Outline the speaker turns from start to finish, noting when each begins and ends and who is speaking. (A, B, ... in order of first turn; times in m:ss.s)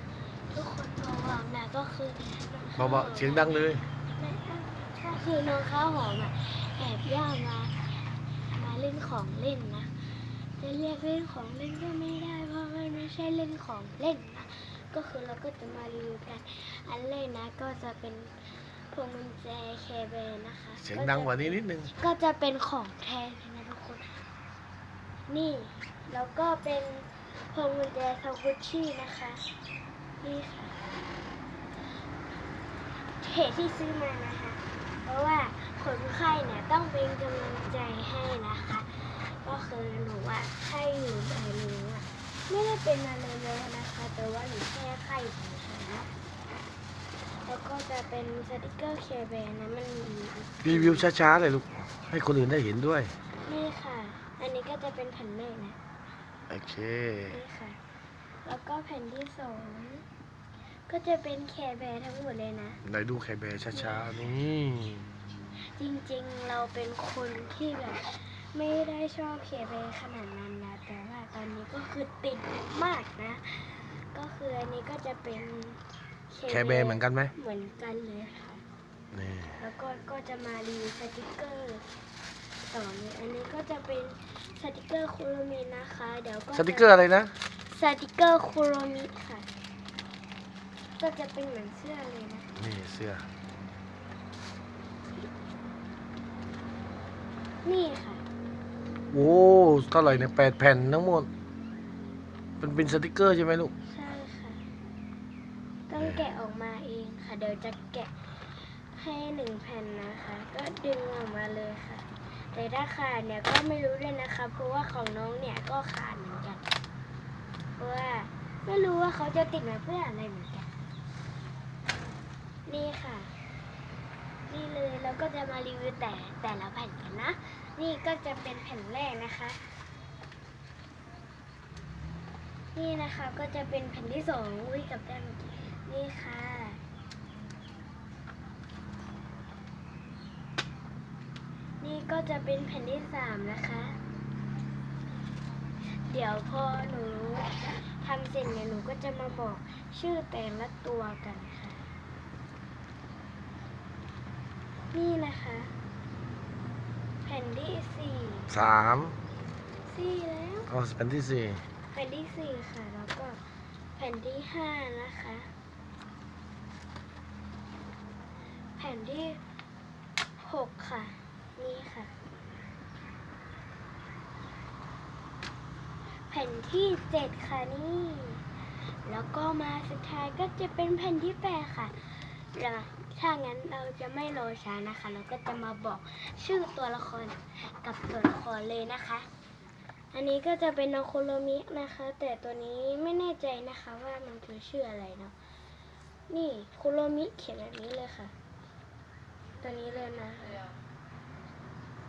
0:00.5-0:24.2 A
0:02.8-0:03.8 B
0:20.8-0:21.9 B
0:25.3-0:29.4 A
0:30.2-0:30.8 A
0:33.0-0:46.1 A
0:47.2-0:51.1 A
0:50.6-0:53.1 B
0:53.3-0:55.8 A
0:56.5-0:57.4 B
0:57.3-0:57.8 A
0:58.4-1:00.0 A
1:00.9-1:02.8 A
1:02.8-1:05.1 B
1:03.7-1:04.2 A
1:05.7-1:18.6 A
1:16.5-1:17.3 B
1:19.1-1:19.6 B
1:19.6-1:21.9 A
1:22.6-1:26.9 A
1:26.5-1:27.4 B
1:27.5-1:29.5 A
1:31.0-1:32.5 A
1:32.6-1:33.2 B
1:37.6-1:38.2 A
1:39.1-1:41.3 B
1:42.6-1:43.7 B
1:43.9-1:44.7 A
1:45.9-1:56.6 A
1:57.8-2:00.7 A
2:02.7-2:03.3 A
2:04.5-2:09.6 A
2:12.8-2:16.8 A
2:21.8-2:24.0 A
2:26.0-2:31.8 A
2:34.9-2:35.7 A
2:37.2-2:38.5 A
2:38.5-2:39.2 B
2:39.9-2:40.7 A
2:40.7-2:41.6 B
2:41.9-2:43.4 A
2:44.0-2:45.5 A
2:48.8-2:49.4 A
2:50.4-2:52.1 A
2:56.3-3:09.3 A
3:10.1-3:15.3 A
3:16.3-3:18.3 A
3:19.6-3:20.6 A